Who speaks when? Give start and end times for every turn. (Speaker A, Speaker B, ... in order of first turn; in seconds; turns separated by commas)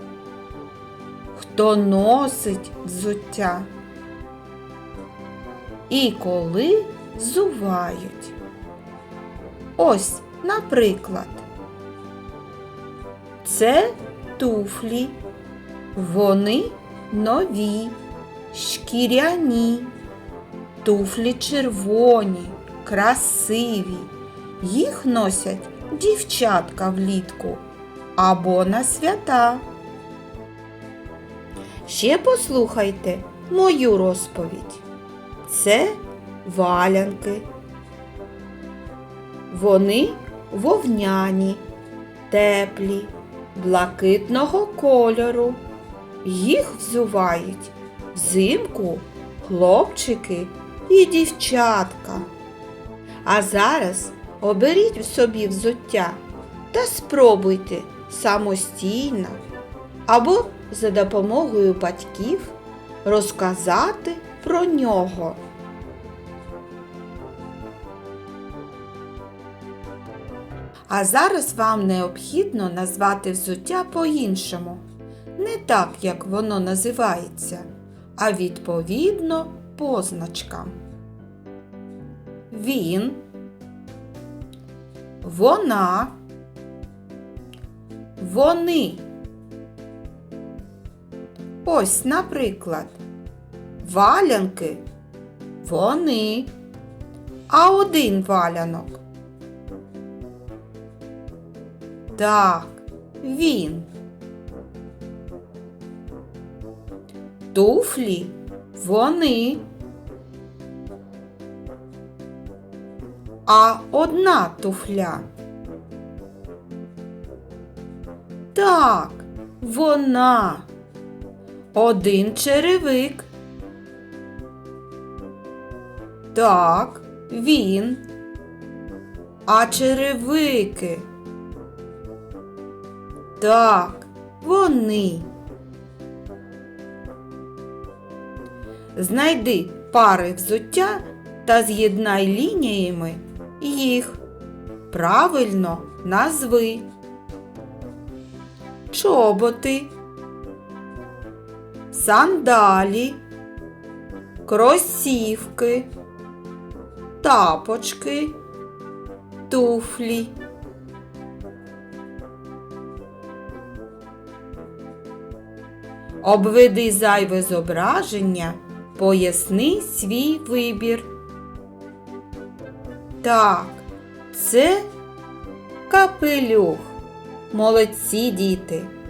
Speaker A: 1.4-3.7, Speaker A: 5.9-8.4, Speaker A: 9.8-11.4, Speaker A: 13.4-15.2, Speaker A: 15.9-18.0, Speaker A: 18.5-19.9, Speaker A: 20.8-27.6, Speaker A: 28.2-29.6, Speaker A: 31.9-34.9, Speaker A: 35.5-37.5, Speaker A: 39.5-41.6, Speaker A: 42.3-45.6, Speaker A: 46.2-52.3, Speaker A: 53.2-56.2, Speaker A: 56.7-59.4, Speaker A: 60.1-65.4, Speaker A: 70.9-74.8, Speaker A: 75.4-80.8, Speaker A: 82.5-83.2, Speaker A: 85.2-86.2, Speaker A: 88.2-89.1, Speaker A: 91.6-93.0, Speaker A: 93.8-94.8, Speaker A: 95.6-96.5, Speaker A: 97.5-99.0, Speaker A: 102.2-103.9, Speaker A: 107.5-109.7, Speaker A: 113.5-115.3, Speaker A: 118.5-120.7, Speaker A: 121.7-123.3, Speaker A: 126.3-128.0, Speaker A: 129.5-131.1, Speaker A: 133.4-135.3, Speaker A: 139.0-144.2, Speaker A: 144.9-146.9, Speaker A: 148.9-149.9, Speaker A: 151.9-153.2, Speaker A: 154.5-155.9, Speaker A: 157.2-158.3, Speaker A: 159.5-160.4, Speaker A: 166.2-171.1, Speaker A: 173.2-174.9, Speaker A: 175.9-177.0, Speaker A: 177.5-178.9